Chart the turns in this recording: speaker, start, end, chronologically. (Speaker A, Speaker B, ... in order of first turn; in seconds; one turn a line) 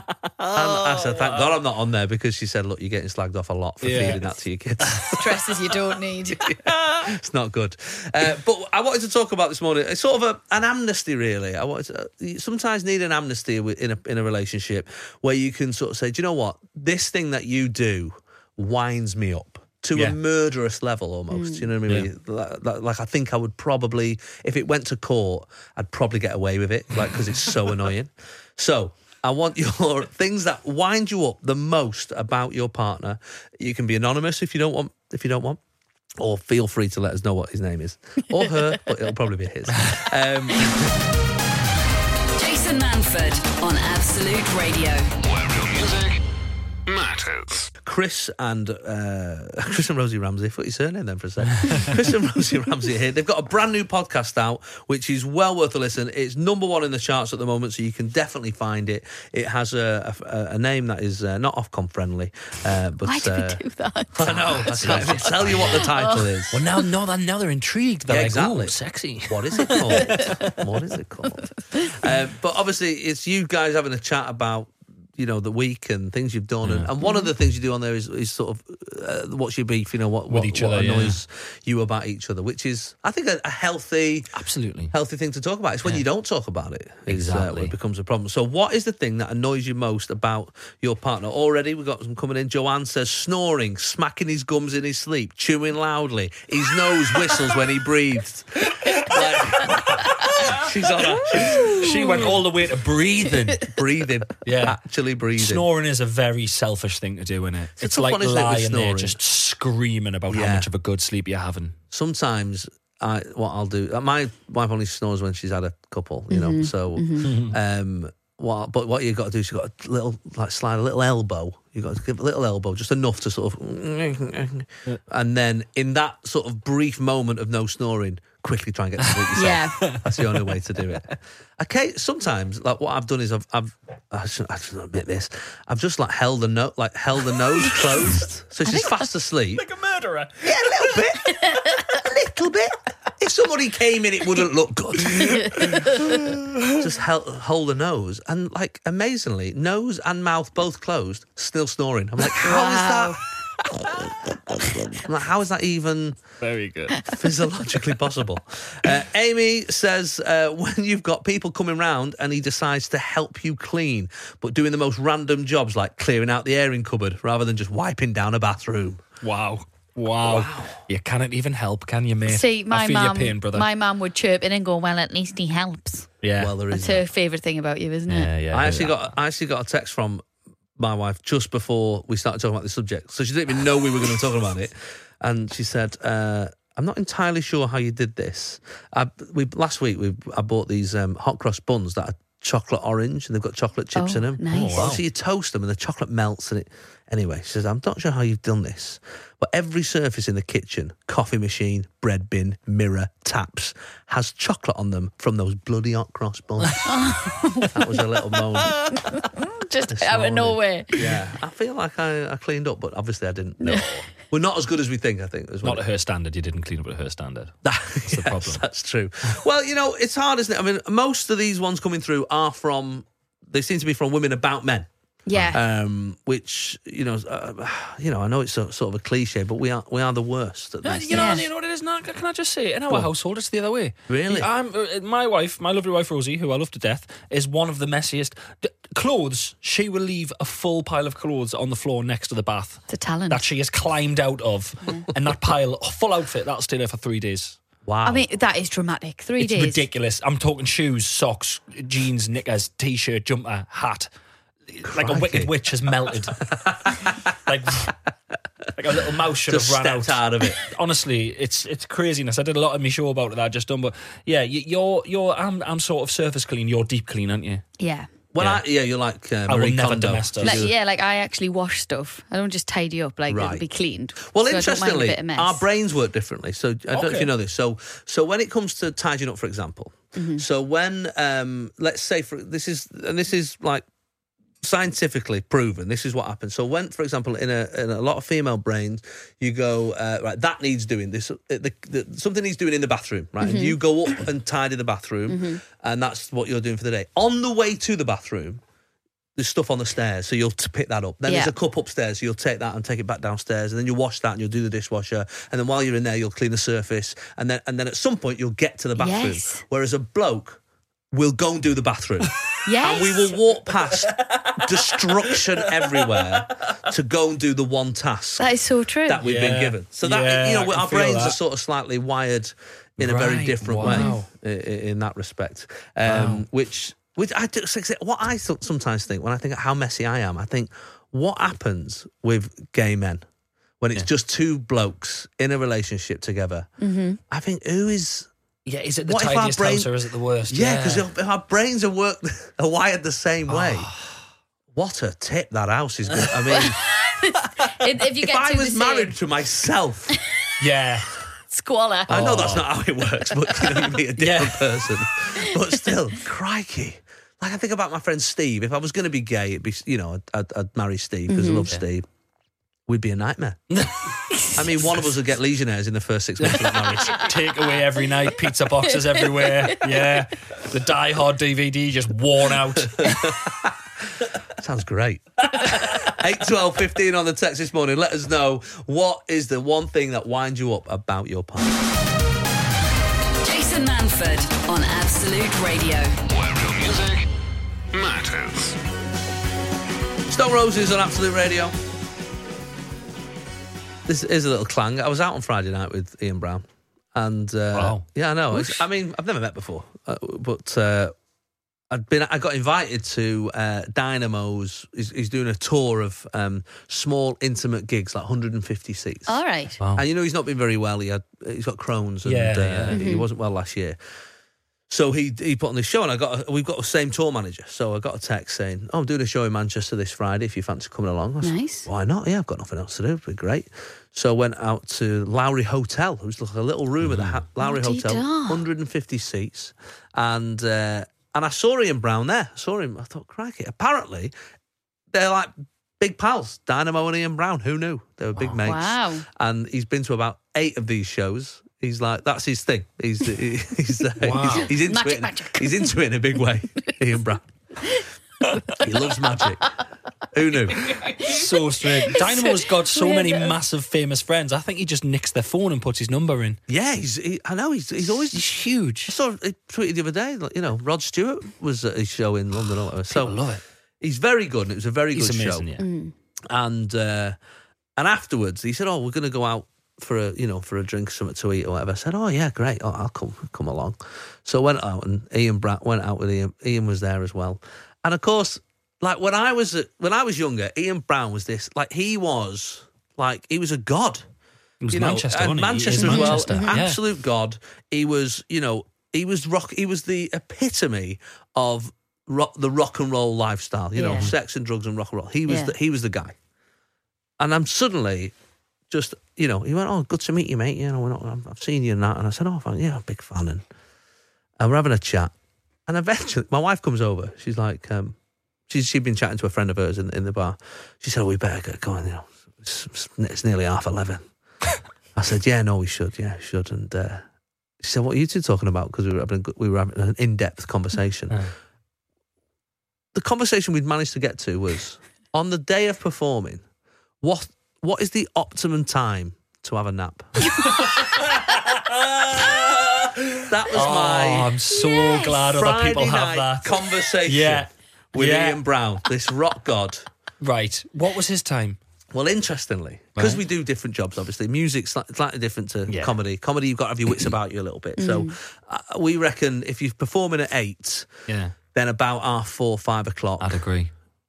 Speaker A: 0.4-1.6
Speaker B: 0.5-5.4
Speaker A: 3.8-4.2
Speaker A: 4.8-5.2
Speaker C: 5.1-6.4
Speaker B: 6.3-35.6
Speaker A: 6.7-6.9
Speaker C: 21.3-21.7
Speaker B: 36.2-41.0
Speaker D: 42.3-45.1
Speaker E: 45.2-46.2
Speaker E: 46.9-47.7
Speaker B: 47.8-63.6
Speaker C: 63.0-66.3
Speaker B: 64.1-66.6
Speaker A: 64.3-65.9
Speaker A: 66.5-70.5
Speaker B: 68.1-84.3
Speaker C: 69.7-70.4
Speaker A: 76.6-76.9
Speaker C: 77.0-77.3
Speaker A: 80.3-81.2
Speaker A: 84.3-84.9
Speaker B: 84.9-102.3
Speaker A: 87.1-87.7
Speaker A: 98.8-100.6
Speaker A: 101.3-103.7
Speaker C: 101.4-102.0
Speaker B: 103.6-105.6
Speaker A: 104.4-104.8
Speaker A: 105.3-111.8
Speaker B: 107.8-109.2
Speaker B: 110.3-110.7
Speaker B: 111.9-139.6
Speaker C: 116.3-117.3
Speaker A: 117.2-117.6
Speaker C: 129.3-129.8
Speaker A: 129.8-131.0
Speaker C: 138.7-139.0
Speaker A: 139.5-141.0
Speaker B: 140.4-145.9
Speaker C: 141.2-141.9
Speaker A: 145.1-146.9
Speaker C: 145.3-146.2
Speaker B: 146.8-153.2
Speaker C: 152.3-153.2
Speaker A: 153.9-154.2
Speaker B: 154.9-156.2
Speaker A: 156.4-157.1
Speaker B: 157.0-169.0
Speaker A: 169.2-173.7
Speaker B: 170.2-170.8
Speaker C: 172.3-176.1
Speaker A: 176.2-176.5
Speaker B: 176.4-177.1
Speaker C: 176.7-178.3
Speaker A: 178.1-179.0
Speaker B: 178.5-180.2
Speaker B: 180.8-207.1
Speaker C: 193.9-194.9
Speaker A: 194.5-195.0
Speaker C: 206.8-207.9
Speaker B: 207.7-208.8
Speaker C: 208.9-210.9
Speaker B: 209.9-215.8
Speaker A: 215.6-217.5
Speaker B: 217.6-224.9
Speaker A: 218.0-218.6
Speaker C: 225.2-225.6
Speaker B: 225.4-231.4
Speaker A: 230.8-247.6
Speaker C: 231.1-231.5
Speaker B: 234.1-234.5
Speaker C: 242.9-243.4
Speaker B: 247.8-248.3
Speaker C: 248.0-249.8
Speaker A: 249.4-254.1
Speaker A: 254.7-256.5
Speaker B: 254.8-255.5
Speaker B: 256.5-257.2
Speaker A: 257.0-258.0
Speaker A: 258.7-267.6
Speaker B: 259.5-260.6
Speaker C: 267.8-268.1
Speaker B: 268.3-270.7
Speaker A: 269.5-270.7
Speaker C: 270.4-275.6
Speaker B: 273.3-273.6
Speaker B: 274.2-283.8
Speaker A: 276.9-277.3
Speaker C: 280.1-280.4
Speaker B: 284.6-298.6
Speaker C: 293.4-293.8
Speaker C: 295.3-295.6
Speaker B: 299.4-310.6
Speaker C: 301.3-301.5
Speaker C: 309.0-309.6
Speaker B: 311.1-318.5
Speaker C: 312.6-313.4
Speaker A: 313.9-316.4
Speaker C: 318.4-319.2
Speaker B: 319.1-333.2
Speaker A: 319.2-321.4
Speaker A: 323.0-324.2
Speaker C: 323.8-324.2
Speaker A: 326.1-326.4
Speaker B: 333.8-336.7
Speaker C: 336.8-337.2
Speaker B: 337.3-338.3
Speaker A: 338.6-341.1
Speaker B: 339.1-339.9
Speaker B: 340.5-343.9
Speaker A: 343.5-344.1
Speaker B: 344.7-346.8
Speaker C: 346.5-349.1
Speaker B: 348.0-350.2
Speaker A: 350.6-351.1
Speaker C: 351.5-352.3
Speaker B: 352.1-362.0
Speaker A: 352.1-352.7
Speaker C: 353.4-353.9
Speaker A: 354.2-354.7
Speaker C: 361.3-361.7
Speaker B: 362.9-363.7
Speaker C: 364.3-364.6
Speaker B: 364.5-367.3
Speaker A: 366.4-373.3
Speaker C: 368.9-369.8
Speaker B: 372.8-381.8
Speaker A: 375.7-376.0
Speaker D: 383.4-386.2
Speaker E: 386.3-387.2
Speaker E: 387.9-388.8
Speaker B: 390.3-391.7
Speaker B: 394.1-401.1
Speaker A: 397.7-398.8
Speaker B: 401.9-409.4
Speaker C: 409.3-409.8
Speaker B: 409.9-414.0
Speaker A: 412.2-413.0
Speaker C: 412.9-413.3
Speaker B: 414.9-434.3
Speaker C: 421.4-421.9
Speaker A: 427.0-427.4
Speaker C: 427.6-428.6
Speaker B: 435.1-447.5
Speaker C: 438.6-439.2
Speaker A: 444.2-444.7
Speaker C: 444.4-446.1
Speaker C: 447.8-449.7
Speaker B: 448.8-449.7
Speaker B: 450.3-451.1
Speaker C: 450.8-453.5
Speaker A: 451.2-456.6
Speaker B: 456.7-458.4
Speaker A: 458.2-459.1
Speaker B: 459.1-463.4
Speaker A: 463.1-463.6
Speaker B: 464.0-465.6
Speaker A: 465.1-465.8
Speaker C: 465.8-466.1
Speaker B: 466.5-467.4
Speaker B: 468.0-484.3
Speaker A: 484.8-487.0
Speaker B: 484.9-496.4
Speaker C: 485.9-486.8
Speaker C: 493.9-494.3
Speaker C: 495.5-495.7
Speaker B: 497.4-498.3
Speaker B: 498.9-503.6
Speaker B: 504.6-505.3
Speaker B: 505.9-508.1
Speaker B: 508.7-514.2
Speaker B: 515.1-517.2
Speaker B: 517.8-521.4
Speaker B: 523.1-526.6
Speaker B: 527.2-530.5
Speaker C: 530.4-531.0
Speaker A: 530.5-538.6
Speaker B: 533.5-534.5
Speaker C: 534.7-535.4
Speaker B: 535.5-540.0
Speaker A: 540.4-541.8
Speaker B: 542.1-551.1
Speaker A: 543.1-543.4
Speaker A: 545.9-546.1
Speaker C: 548.0-548.3
Speaker A: 551.3-551.6
Speaker B: 551.7-553.6
Speaker A: 553.4-553.9